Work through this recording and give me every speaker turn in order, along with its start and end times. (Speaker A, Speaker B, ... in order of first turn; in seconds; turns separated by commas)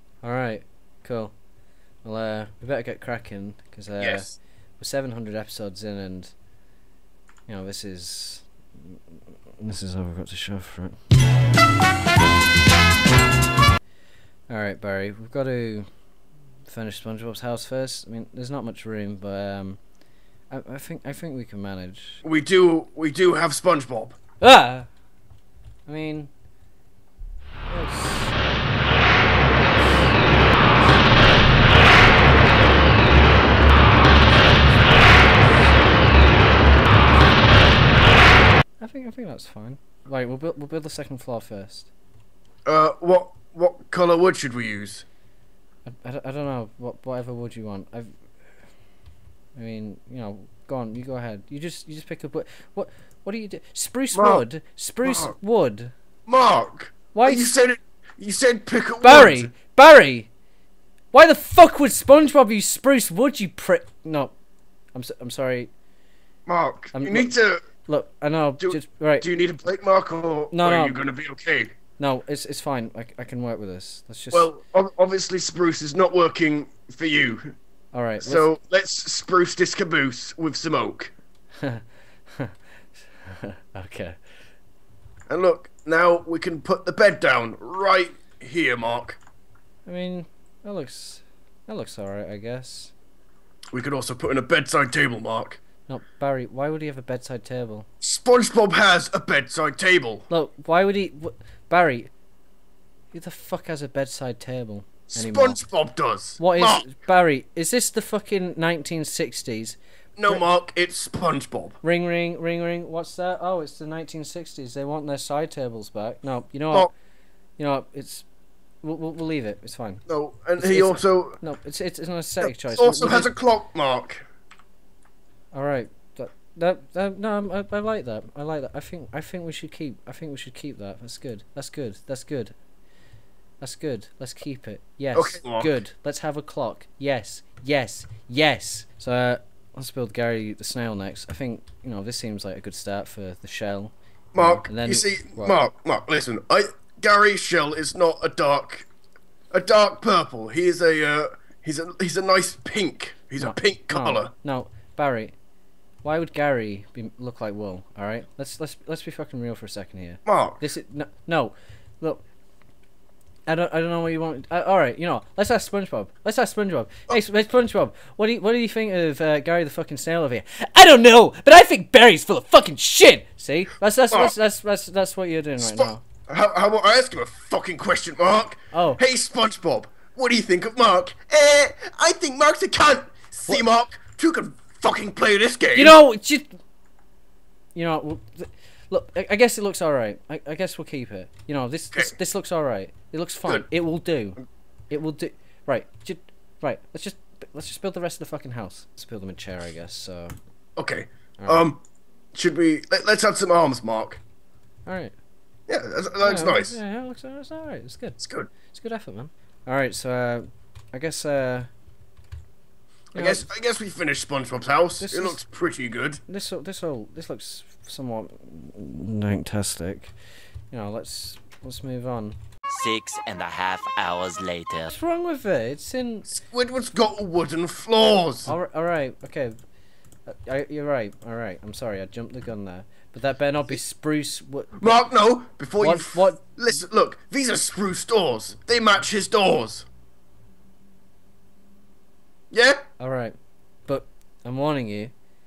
Speaker A: 0.2-1.3, Speaker A: 2.0-6.3, Speaker B: 4.0-4.3, Speaker A: 7.5-9.0, Speaker A: 9.6-11.0, Speaker A: 14.5-15.9, Speaker A: 16.7-19.8, Speaker A: 20.5-22.2, Speaker B: 22.2-24.2, Speaker A: 24.4-24.9, Speaker A: 25.9-26.3, Speaker A: 27.6-28.4, Speaker A: 29.7-31.2, Speaker A: 34.2-35.6, Speaker A: 38.8-41.9, Speaker B: 42.6-45.0, Speaker A: 45.9-48.1, Speaker A: 49.5-55.9, Speaker B: 54.1-54.4, Speaker B: 55.0-55.3, Speaker B: 56.3-59.5, Speaker A: 57.1-57.5, Speaker A: 59.0-60.3, Speaker A: 61.1-64.3, Speaker A: 64.9-65.7, Speaker B: 66.5-67.6, Speaker A: 66.9-67.3, Speaker A: 67.8-69.3, Speaker B: 68.6-71.7, Speaker A: 70.5-71.0, Speaker A: 72.0-74.5, Speaker B: 74.3-77.5, Speaker A: 77.9-78.5, Speaker B: 78.2-81.1, Speaker A: 83.2-84.2, Speaker B: 85.3-89.2, Speaker A: 89.8-92.9, Speaker B: 93.7-95.6, Speaker A: 95.9-97.9, Speaker B: 98.0-100.3, Speaker A: 100.3-102.1, Speaker A: 103.1-105.6, Speaker B: 105.1-106.8, Speaker A: 106.4-110.4, Speaker B: 110.2-111.8, Speaker A: 111.8-116.9, Speaker A: 117.6-118.3, Speaker A: 118.8-120.0, Speaker B: 120.1-121.4, Speaker A: 120.6-123.3, Speaker B: 122.4-124.2, Speaker A: 125.5-132.5, Speaker A: 133.6-145.6, Speaker B: 135.1-135.7, Speaker B: 144.3-148.9, Speaker B: 149.5-154.3, Speaker A: 153.4-155.3, Speaker A: 156.0-162.2, Speaker B: 160.2-160.6, Speaker A: 163.5-176.0, Speaker B: 175.6-186.0, Speaker A: 178.7-179.0, Speaker A: 185.7-186.6, Speaker A: 187.7-194.4, Speaker A: 194.9-200.3, Speaker B: 200.8-201.8, Speaker A: 201.4-201.7, Speaker B: 202.3-204.2, Speaker A: 204.8-205.1, Speaker B: 205.7-206.8, Speaker A: 206.2-211.7, Speaker B: 208.2-208.5, Speaker A: 213.1-213.5, Speaker B: 213.1-216.2, Speaker A: 215.0-215.4, Speaker A: 216.2-220.1, Speaker A: 220.7-222.4, Speaker C: 222.7-224.9, Speaker A: 224.9-226.3, Speaker B: 226.4-228.5, Speaker A: 228.4-229.5, Speaker A: 230.2-234.7, Speaker B: 234.8-239.9, Speaker A: 235.8-236.6, Speaker B: 242.5-242.8, Speaker A: 243.0-245.1